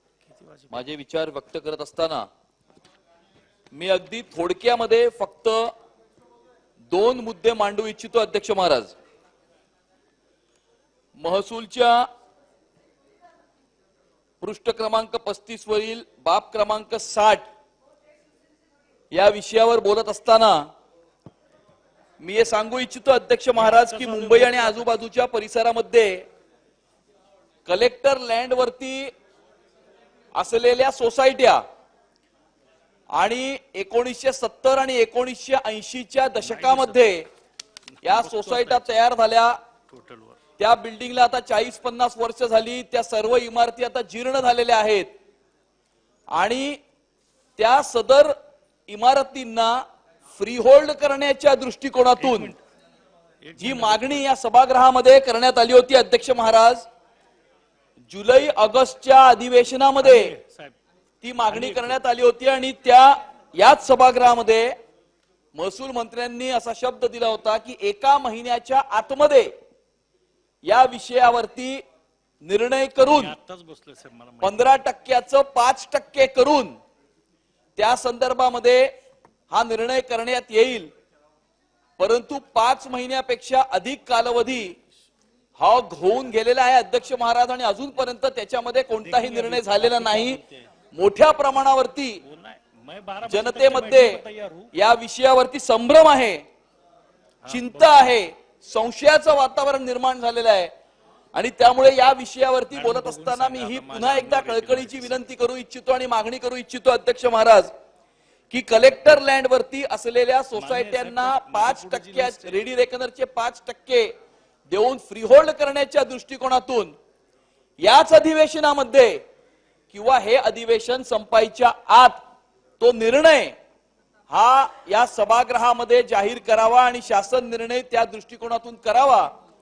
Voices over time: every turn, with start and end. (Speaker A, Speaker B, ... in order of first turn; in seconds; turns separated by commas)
Speaker A: 0.2-0.9, Speaker B: 0.7-2.2, Speaker B: 3.7-5.7, Speaker B: 6.9-8.9, Speaker B: 11.2-12.0, Speaker B: 14.4-17.5, Speaker B: 19.1-20.6, Speaker B: 22.2-26.2, Speaker A: 23.5-25.0, Speaker B: 27.6-29.1, Speaker B: 30.4-31.6, Speaker B: 33.1-37.2, Speaker A: 36.4-37.1, Speaker A: 38.0-39.0, Speaker B: 38.0-39.6, Speaker A: 39.9-40.4, Speaker B: 40.6-45.1, Speaker B: 46.3-46.8, Speaker B: 47.6-48.3, Speaker B: 48.9-49.7, Speaker B: 50.3-52.5, Speaker A: 52.1-52.6, Speaker A: 53.4-54.2, Speaker B: 53.6-56.9, Speaker B: 58.1-60.3, Speaker A: 60.0-60.8, Speaker B: 61.2-64.7, Speaker A: 61.5-62.0, Speaker B: 65.5-69.5, Speaker B: 70.6-71.8, Speaker B: 72.4-73.3, Speaker A: 73.0-74.7, Speaker B: 74.4-76.7, Speaker B: 77.8-78.9, Speaker B: 79.5-80.9, Speaker B: 82.0-84.7, Speaker B: 85.6-90.4, Speaker A: 89.0-90.7, Speaker B: 90.9-92.2, Speaker A: 92.2-94.7, Speaker B: 93.2-94.2, Speaker B: 94.7-96.4, Speaker A: 97.4-98.2, Speaker B: 97.5-100.7, Speaker B: 101.3-107.7, Speaker A: 102.7-105.3, Speaker B: 108.5-114.1, Speaker A: 110.5-112.6, Speaker B: 114.7-116.9, Speaker B: 117.8-119.2, Speaker B: 119.9-122.2, Speaker B: 122.8-123.5, Speaker B: 124.3-129.3